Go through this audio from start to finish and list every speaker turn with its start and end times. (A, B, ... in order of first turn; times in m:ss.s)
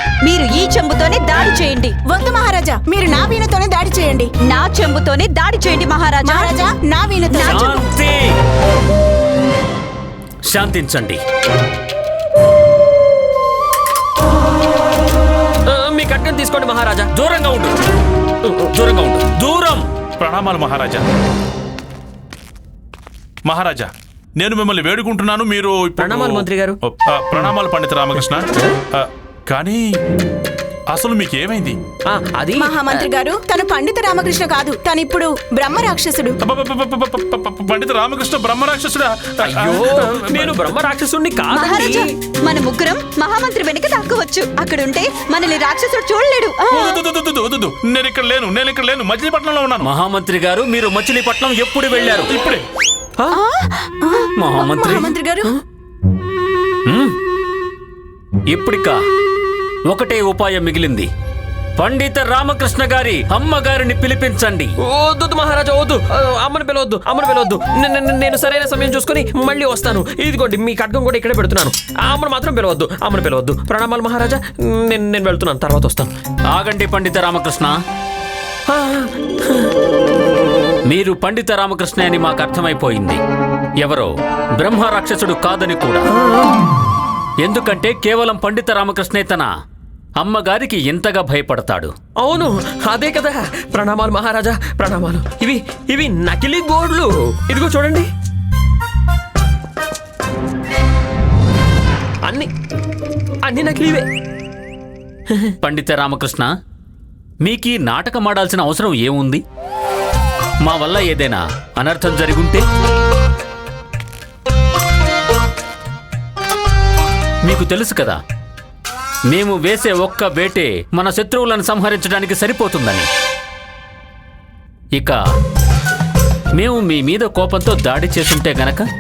0:00.2-0:01.9 A
0:02.1-0:04.3 B
0:04.5-0:06.5 A
0:06.2-0:07.8 B
0:07.3-0:07.6 A
0:07.4-0:08.3 C
0:10.5-0:11.2 C
0:15.7-0:17.1 D
0:17.1-0:17.7 C
0:18.7-0:19.8 C
0:20.2-0:21.0 E
0:23.4-0:29.9 E
0:26.0-0:26.8 D
0:30.9-0:31.8 E
0:32.1-0:33.0 D
0:32.6-0:36.4 B
0:36.4-0:40.5 E
0:39.4-0:42.1 D
0:41.5-0:47.0 A
0:46.8-0:49.9 E
0:49.8-0:52.3 C
0:52.3-0:52.6 E
0:53.4-0:53.9 A
0:54.4-0:55.1 C
0:54.5-0:55.5 B
0:56.9-0:57.1 C
0:58.5-0:59.0 C
0:59.9-1:01.1 C
1:01.8-1:04.7 C
1:04.8-1:16.1 D
1:16.5-1:17.8 C
1:18.7-1:19.7 D
1:20.9-1:23.2 C
1:23.8-1:26.1 C
1:26.2-1:26.5 D
1:27.4-1:29.5 C
1:30.2-1:31.9 C
1:32.2-1:38.1 D
1:42.2-1:42.5 D
1:43.4-1:44.0 D
1:45.6-1:46.5 C
1:47.4-1:49.4 C
1:50.6-1:52.6 C
1:57.4-1:58.2 C
1:59.3-2:03.1 C
2:06.6-2:08.8 C